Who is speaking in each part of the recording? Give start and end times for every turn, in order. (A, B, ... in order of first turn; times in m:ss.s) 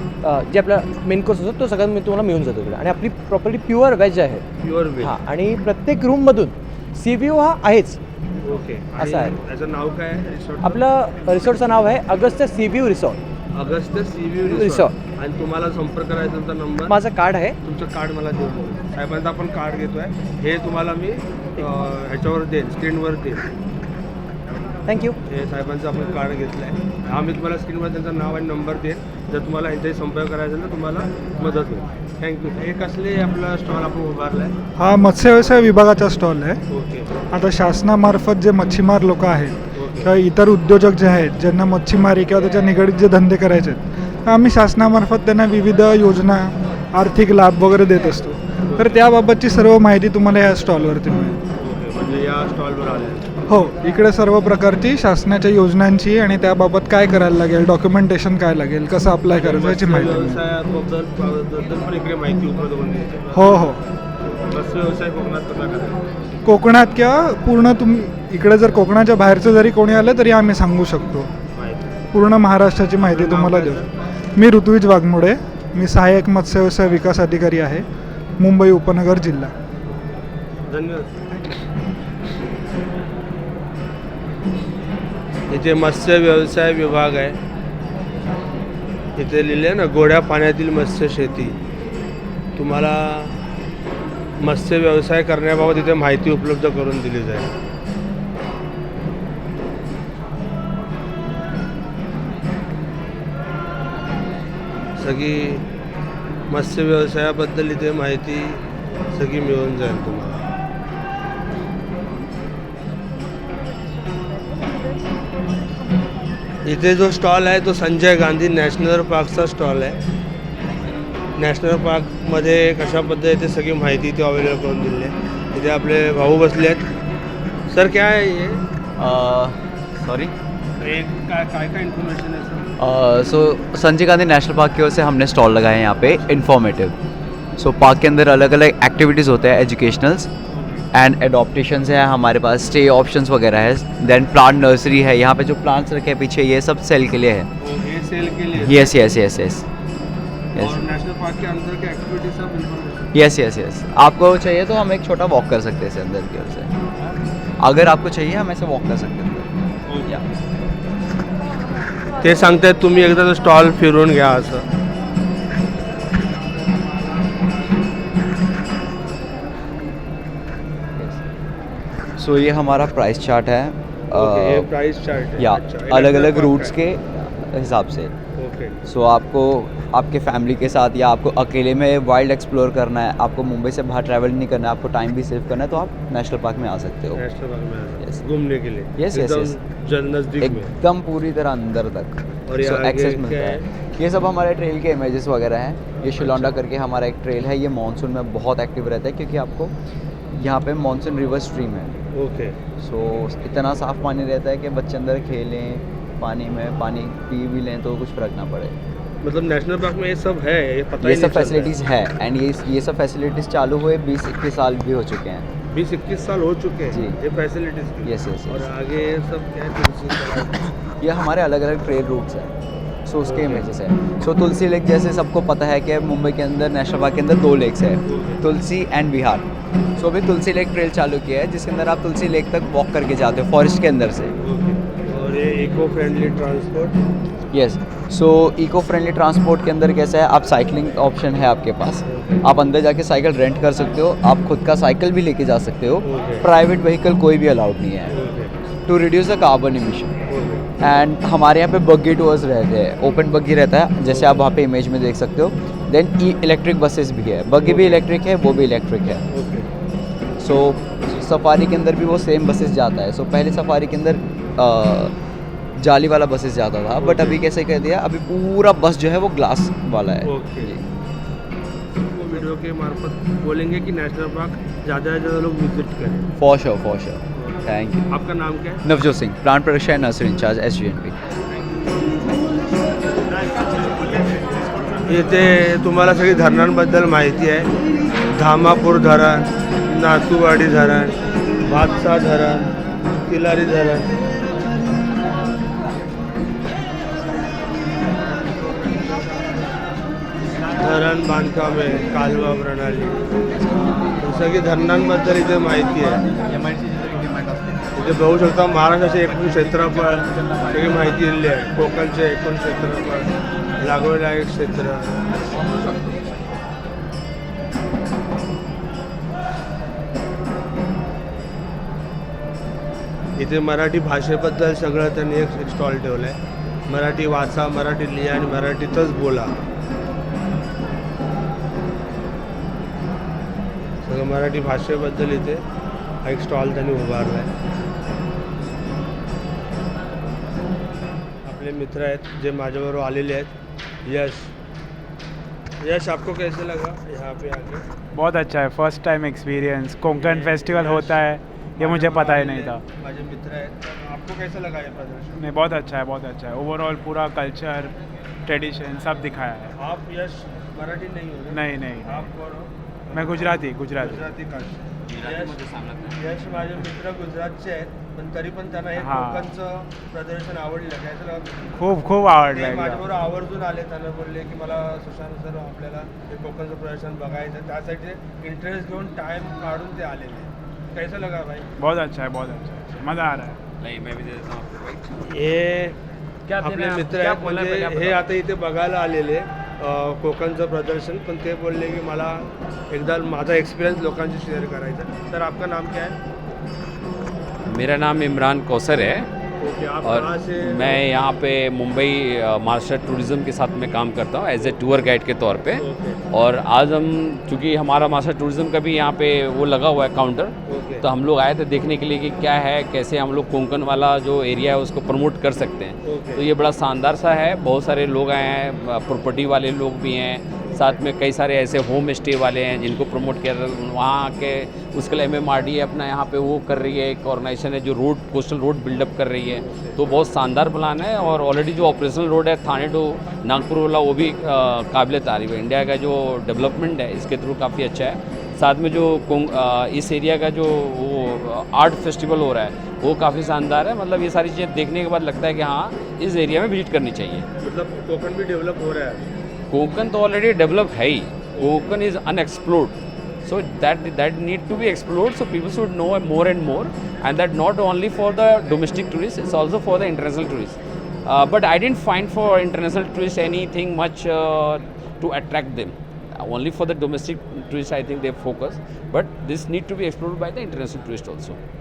0:00.2-0:04.4 A
0:04.6-0:05.1 B
0:05.0-0:08.0 A
0:08.4-0:10.8 B
0:09.0-0:09.3 A
0:10.6-0:13.2 A
0:13.5-0:16.9 B
0:14.4-0:14.9 A
0:16.9-0:17.5 A
0:17.6-0:23.4 B
0:24.8-0:25.2 A
0:25.3-0:34.5 B
0:34.8-0:36.6 C
0:36.7-0:37.1 B
0:37.3-0:51.4 C
0:39.7-0:40.1 B
0:48.6-0:49.0 B
0:51.6-0:53.3 B
0:53.5-1:00.4 C
0:59.4-1:03.6 B
1:03.3-1:03.8 C
1:04.4-1:06.0 B
1:06.4-1:11.3 C
1:11.5-1:11.9 B
1:12.1-1:13.8 C
1:13.0-1:13.9 B
1:14.4-1:17.8 C
1:18.4-1:19.5 C
1:20.7-1:21.1 B
1:25.5-1:27.4 B
1:29.2-1:31.5 B
1:32.6-1:33.4 B
1:34.4-1:37.5 B
1:45.0-1:45.6 B
1:46.5-1:48.6 B
1:49.1-1:50.4 B
1:56.6-2:00.0 B
2:01.4-2:06.8 B
2:07.7-2:08.6 B
2:09.0-2:10.3 D
2:10.8-2:12.7 B
2:12.8-2:16.9 D
2:17.6-2:20.3 D
2:20.5-2:20.8 B
2:20.9-2:27.5 D
2:27.6-2:29.0 B
2:28.6-2:29.6 D
2:30.6-2:33.1 B
2:33.1-2:36.7 D
2:37.6-2:39.5 D
2:39.9-2:40.2 B
2:42.2-2:44.6 B
2:52.2-2:54.7 D
2:54.1-2:56.7 B
2:55.4-2:58.1 D
2:58.4-2:58.8 B
2:58.8-3:07.2 D
3:07.1-3:10.7 B
3:09.0-3:09.6 D
3:10.4-3:19.7 D
3:12.5-3:13.6 B
3:16.1-3:16.6 B
3:20.3-3:21.9 D
3:22.1-3:22.6 B
3:22.8-3:28.7 D
3:29.2-3:31.7 B
3:31.0-3:35.5 D
3:35.7-3:40.7 B
3:38.0-3:38.7 D
3:41.0-3:42.5 D
3:43.1-3:49.4 D
3:43.2-3:43.6 B
3:48.0-3:48.4 B
3:50.0-3:54.3 D
3:54.4-3:57.0 B
3:57.5-4:08.2 D
4:02.1-4:02.4 B
4:06.0-4:06.4 B
4:08.1-4:08.5 B
4:08.9-4:10.1 D
4:10.3-4:10.7 B
4:10.8-4:19.2 D
4:14.1-4:14.4 B
4:17.6-4:18.0 B
4:19.3-4:19.7 B
4:20.4-4:25.1 D
4:25.8-4:30.8 D
4:27.0-4:27.4 B
4:30.2-4:30.7 B
4:32.0-4:36.3 B
4:36.4-4:38.1 D
4:38.1-4:38.8 B
4:38.8-4:41.1 D
4:45.0-4:47.7 B
4:48.3-4:54.2 B
5:00.7-5:03.2 B
5:04.2-5:06.2 B
5:07.9-5:13.3 B
5:13.8-5:16.0 B
5:23.4-5:26.4 B
5:26.9-5:29.5 B
5:34.0-5:35.6 B
5:36.2-5:37.5 B
5:41.4-5:43.5 B
5:44.0-5:44.5 B
5:45.8-5:47.8 B
5:48.1-5:52.8 E
5:50.1-5:51.2 B
5:51.8-5:55.4 B
5:55.4-5:57.9 E
5:58.4-5:59.8 E
5:59.8-6:05.6 B
6:01.5-6:02.2 E
6:03.1-6:04.2 E
6:05.1-6:06.0 F
6:06.2-6:11.7 B
6:09.0-6:09.5 E
6:11.7-6:13.0 E
6:12.4-6:21.7 B
6:21.8-6:23.6 E
6:23.8-6:25.3 F
6:25.3-6:26.0 B
6:26.6-6:36.2 B
6:37.7-6:39.3 F
6:39.6-6:41.0 B
6:40.0-7:27.5 F
6:45.8-6:46.2 B
6:50.7-6:51.0 B
6:56.0-6:56.4 B
7:09.6-7:10.0 B
7:27.6-7:29.2 B
7:29.7-7:51.6 F
7:31.5-7:31.8 B